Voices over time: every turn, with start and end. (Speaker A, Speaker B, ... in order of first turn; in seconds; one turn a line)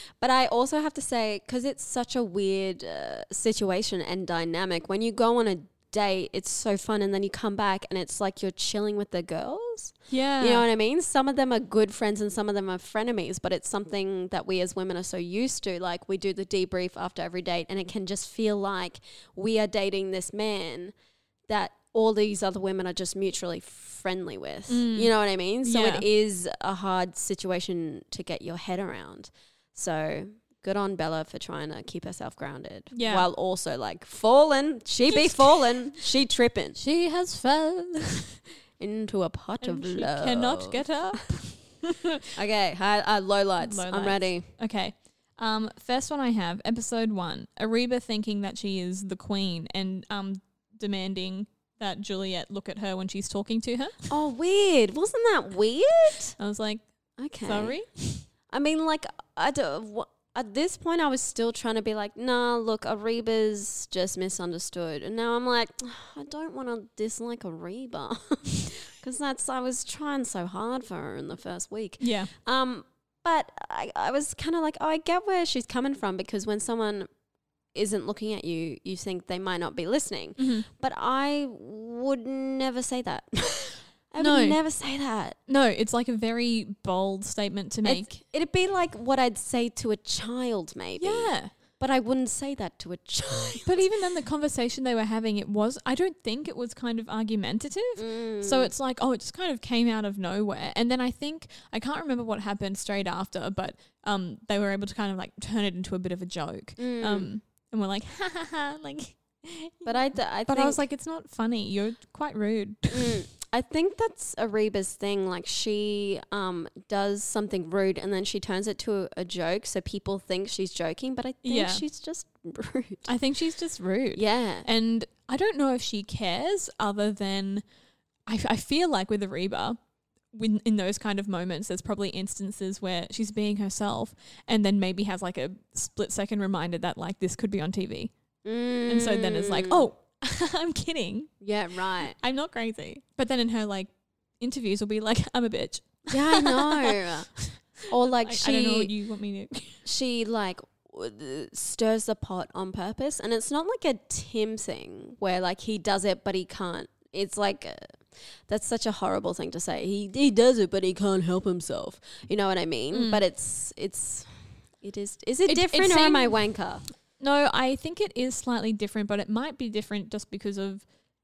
Speaker A: 0.2-20.9
Speaker B: 10.1-10.7
Speaker A: 21.5-36.8
Speaker B: 24.7-26.1
Speaker B: 32.9-33.3
Speaker B: 35.1-35.6
Speaker B: 36.8-38.4
Speaker A: 38.8-40.8
Speaker B: 39.6-42.3
Speaker A: 42.3-44.5
Speaker B: 43.6-54.1
Speaker A: 54.1-56.3
Speaker B: 56.4-56.8
Speaker A: 57.2-57.8
Speaker B: 57.4-58.2
Speaker A: 58.5-77.1
Speaker B: 72.0-72.3
Speaker A: 77.7-85.4
Speaker B: 80.4-80.7
Speaker B: 84.2-84.6
Speaker B: 85.5-88.1
Speaker A: 87.8-93.9
Speaker B: 91.0-91.5
Speaker B: 93.6-113.2
Speaker A: 98.0-98.7
Speaker A: 106.8-107.3
Speaker A: 109.8-110.8
Speaker A: 112.9-123.1
Speaker B: 121.4-121.8
Speaker B: 123.1-127.6
Speaker A: 124.1-124.7
Speaker B: 128.2-129.8
Speaker B: 130.3-138.1
Speaker A: 138.4-139.9
Speaker B: 138.9-141.3
Speaker A: 141.4-142.2
Speaker B: 141.9-149.8
Speaker A: 146.1-147.3
Speaker A: 147.9-148.9
Speaker A: 149.8-166.8
Speaker B: 162.9-163.2
Speaker B: 165.4-166.4
Speaker B: 167.2-170.8